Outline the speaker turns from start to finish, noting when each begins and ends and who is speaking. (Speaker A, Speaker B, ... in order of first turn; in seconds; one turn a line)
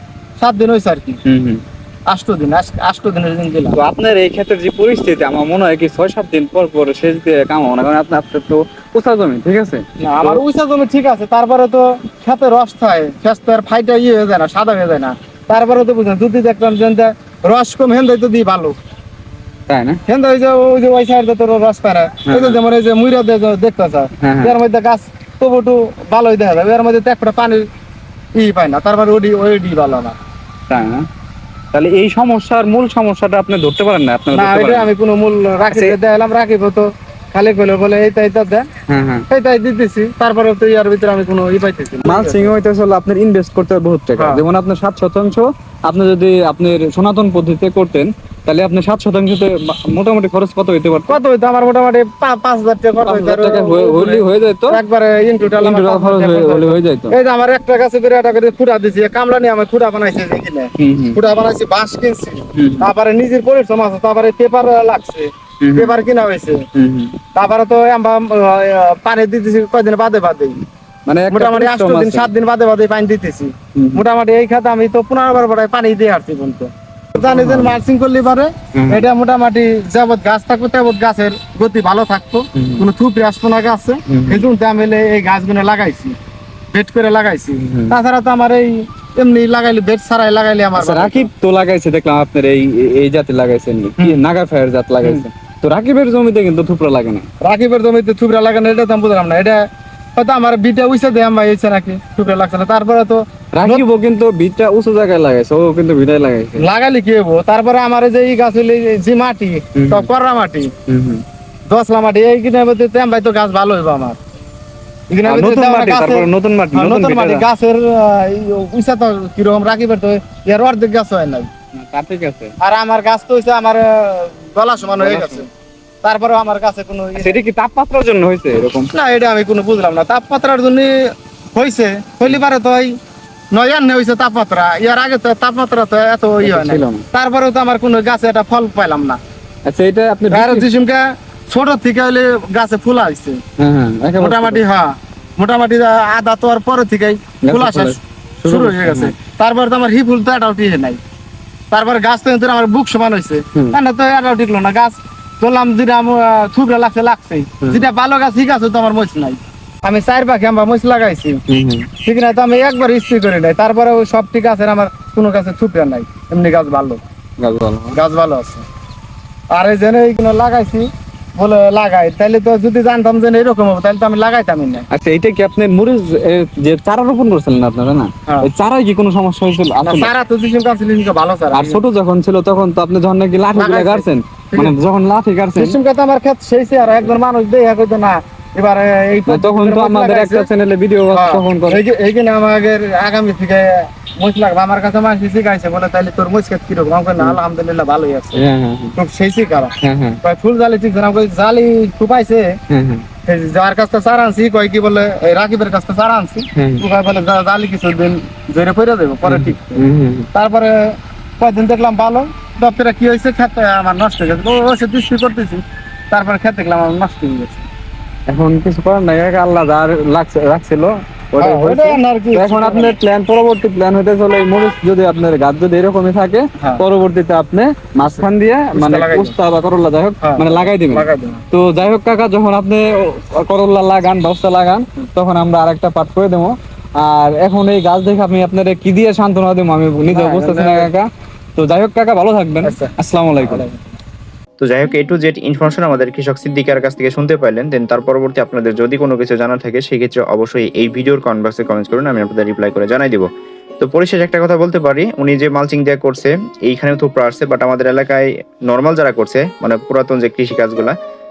Speaker A: 0.4-1.2
Speaker B: 1.2-1.6
Speaker A: 2.1-3.8
Speaker B: 3.7-10.4
Speaker A: 10.0-18.8
Speaker B: 19.7-20.0
Speaker A: 20.1-27.6
Speaker B: 22.2-22.6
Speaker B: 24.2-24.6
Speaker A: 28.3-30.1
Speaker B: 30.7-31.0
Speaker B: 31.7-34.9
Speaker A: 34.3-38.7
Speaker B: 35.7-36.0
Speaker B: 38.9-39.2
Speaker A: 39.3-42.5
Speaker B: 42.0-51.2
Speaker A: 44.2-44.4
Speaker A: 51.1-66.6
Speaker B: 53.0-54.8
Speaker B: 55.4-57.1
Speaker B: 60.8-61.2
Speaker B: 62.5-62.9
Speaker B: 65.6-65.9
Speaker B: 66.7-67.2
Speaker A: 67.3-70.6
Speaker B: 71.0-72.3
Speaker A: 71.3-86.2
Speaker B: 73.7-74.0
Speaker B: 77.2-77.8
Speaker B: 78.7-79.0
Speaker B: 82.5-82.9
Speaker B: 84.1-84.5
Speaker A: 86.7-91.3
Speaker B: 87.6-88.0
Speaker B: 90.8-97.2
Speaker A: 97.4-103.8
Speaker B: 103.5-106.7
Speaker A: 106.6-110.7
Speaker B: 109.7-110.1
Speaker B: 110.9-111.2
Speaker A: 111.7-114.2
Speaker A: 115.1-121.5
Speaker B: 115.2-117.5
Speaker B: 121.7-122.5
Speaker A: 122.6-125.5
Speaker B: 125.0-125.5
Speaker A: 126.0-127.4
Speaker B: 127.2-128.9
Speaker A: 128.9-132.9
Speaker A: 133.5-139.2
Speaker B: 136.4-137.0
Speaker B: 139.6-140.7
Speaker A: 140.3-143.4
Speaker B: 143.6-144.6
Speaker A: 144.2-151.0
Speaker B: 147.4-149.1
Speaker A: 151.7-161.4
Speaker B: 161.5-161.9
Speaker A: 162.0-167.0
Speaker B: 167.4-168.0
Speaker A: 167.9-168.6
Speaker A: 169.5-174.8
Speaker B: 174.9-180.1
Speaker A: 179.8-181.8
Speaker B: 181.5-185.8
Speaker A: 183.5-184.7
Speaker A: 185.5-190.5
Speaker B: 189.3-191.8
Speaker A: 191.1-198.4
Speaker B: 198.3-199.0
Speaker A: 198.9-202.6
Speaker B: 199.8-200.2
Speaker B: 202.7-203.0
Speaker A: 203.2-217.7
Speaker B: 206.5-206.8
Speaker B: 209.2-210.3
Speaker B: 218.3-243.6
Speaker A: 221.4-223.0
Speaker A: 228.7-229.3
Speaker A: 230.2-231.4
Speaker A: 240.1-240.9
Speaker A: 242.6-243.9
Speaker C: 244.6-253.3
Speaker C: 253.8-260.9